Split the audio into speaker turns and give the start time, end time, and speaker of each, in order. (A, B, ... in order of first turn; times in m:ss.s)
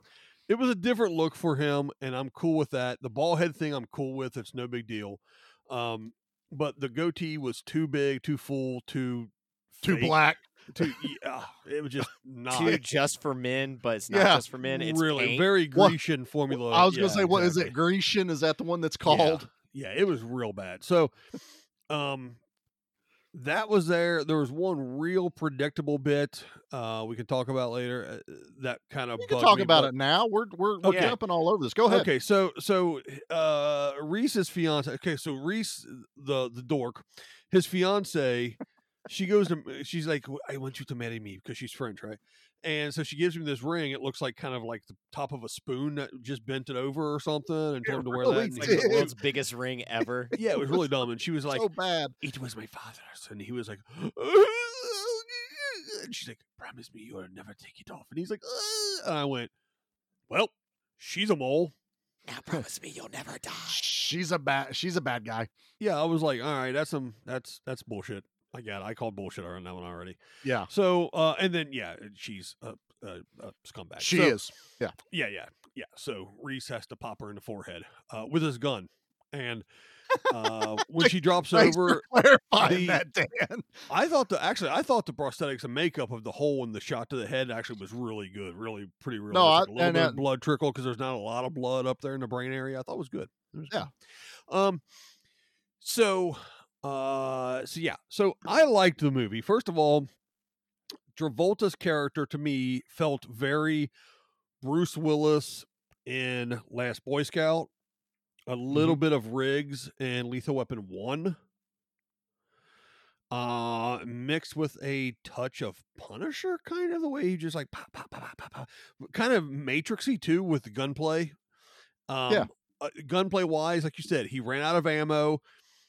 0:00.5-0:12.8 A
0:09.8-0:10.9 B
0:12.5-0:15.5 C
0:14.1-0:14.4 B
0:14.6-0:17.8 A
0:16.5-0:19.5 B
0:19.1-0:21.1 A
0:21.9-0:22.4 A
0:23.3-0:29.9 A
0:29.2-0:32.1 B
0:30.8-0:31.2 A
0:30.8-0:31.2 C
0:31.8-0:49.1 A
0:47.9-0:49.1 B
0:48.3-0:50.3 C
0:50.3-0:50.8 B
0:50.4-0:51.7 A
0:51.5-0:52.1 B
0:52.2-0:59.5 A
1:00.3-1:01.7 A
1:02.3-1:03.9 C
1:03.7-1:05.5 B
1:05.8-1:10.2 A
1:10.4-1:10.7 B
1:10.7-1:14.4 A
1:14.0-1:15.0 B
1:15.1-1:19.6 A
1:20.2-1:22.0 A
1:21.0-1:23.7 B
1:22.6-1:23.0 A
1:23.9-1:33.9 A
1:29.3-1:30.2 B
1:34.5-1:34.8 A
1:35.8-1:40.1 A
1:41.2-1:43.9 A
1:44.6-1:47.7 A
1:48.5-1:51.4 A
1:48.7-1:49.0 B
1:53.3-2:01.4 A
2:02.1-2:05.4 A